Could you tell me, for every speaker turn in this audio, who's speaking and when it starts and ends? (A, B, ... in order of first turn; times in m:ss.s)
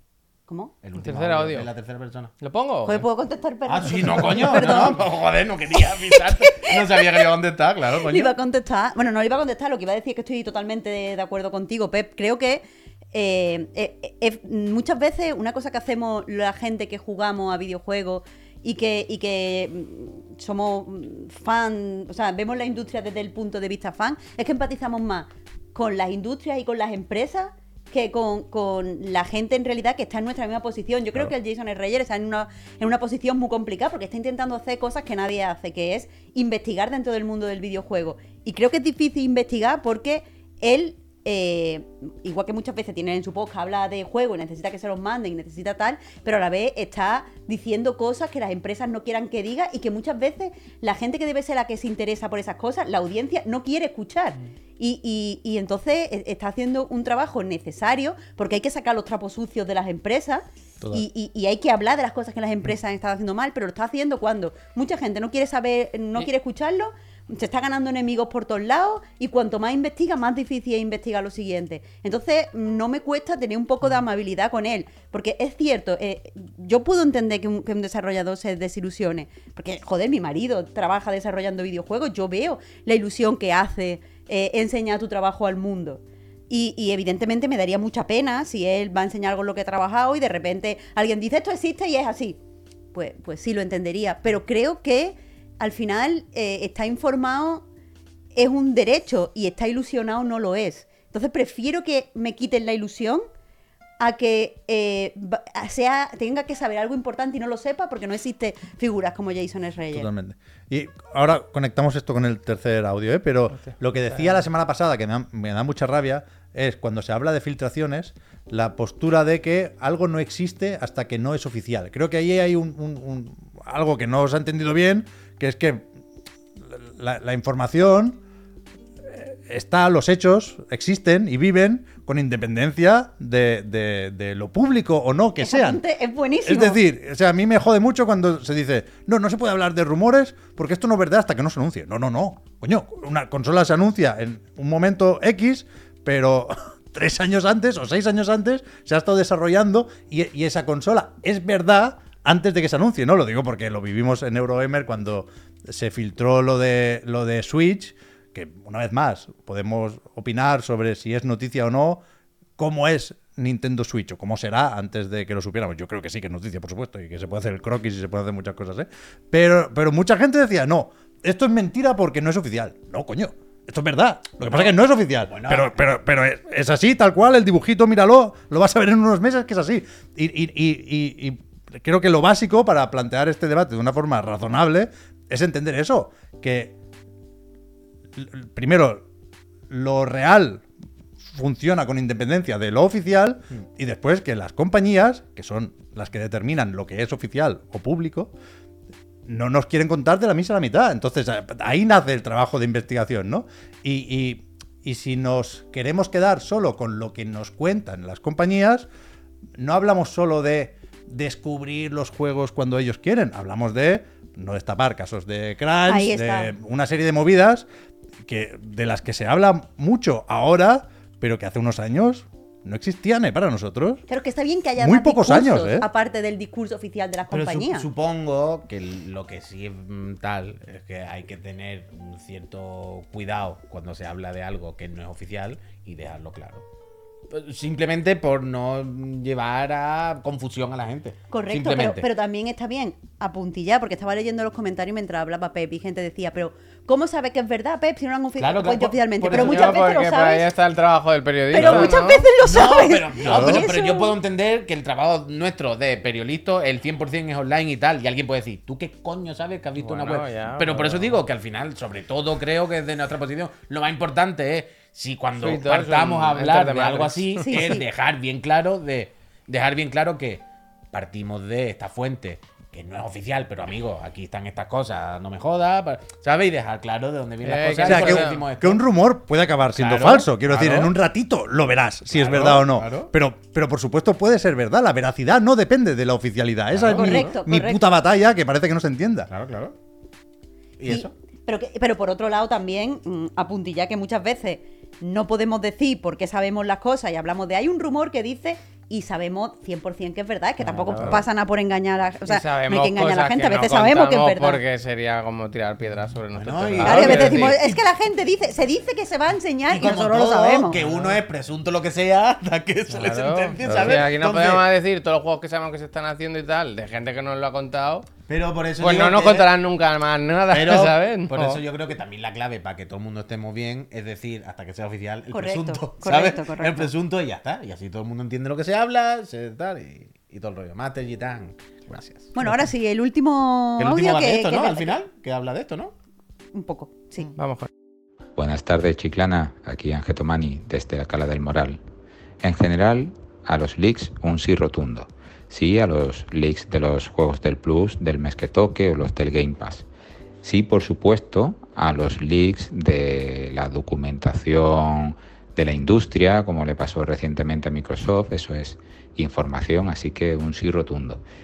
0:00.5-0:00.7 A
0:00.8-0:02.3 B
0:01.0-0:01.7 C
0:02.4-0:03.0 C
0:02.8-0:05.0 A
0:03.7-0:08.3 B
0:05.8-0:07.2 A
0:08.0-1:32.4 A
1:00.8-1:01.0 D
1:32.9-1:37.6 A
1:38.4-1:43.2 A
1:44.0-1:50.1 A
1:49.9-2:05.9 D
1:53.6-1:54.4 C
2:06.7-2:08.2 D
2:09.0-2:15.8 D
2:15.4-2:16.8 A
2:16.4-2:42.0 D
2:42.6-3:06.7 D
2:54.5-2:55.9 B
3:08.2-3:09.0 D
3:09.7-3:10.6 D
3:11.2-3:18.3 D
3:19.3-3:28.9 D
3:29.6-3:37.7 D
3:35.9-3:36.5 A
3:38.2-3:44.0 D
3:44.1-3:47.9 A
3:44.8-3:45.9 D
3:47.3-3:56.6 B
3:57.3-4:02.0 B
4:01.3-4:10.5 A
4:08.4-4:09.8 B
4:09.3-4:12.3 C
4:11.5-4:14.1 A
4:11.5-4:38.8 B
4:19.8-4:21.1 C
4:25.4-4:27.7 C
4:27.4-4:27.8 A
4:37.4-4:38.4 C
4:37.8-4:49.3 D
4:39.7-4:40.9 B
4:42.1-4:43.1 B
4:46.7-4:47.2 B
4:46.9-4:47.8 A
4:49.3-4:49.7 B
4:50.8-4:51.1 B
4:50.9-5:04.6 A
5:00.7-5:01.2 C
5:00.9-5:01.2 B
5:02.2-5:07.6 C
5:06.3-5:07.6 B
5:06.8-5:10.8 A
5:09.7-5:14.6 B
5:10.8-5:11.2 C
5:12.9-5:18.1 C
5:13.6-5:14.0 D
5:18.3-5:19.5 B
5:18.8-5:21.3 C
5:20.5-5:32.6 B
5:21.3-5:21.6 D
5:25.3-5:26.9 A
5:32.3-5:34.9 A
5:33.8-5:35.9 B
5:36.5-5:37.3 A
5:37.4-5:37.7 C
5:38.4-5:41.8 E
5:42.4-5:49.9 E
5:50.4-6:01.2 E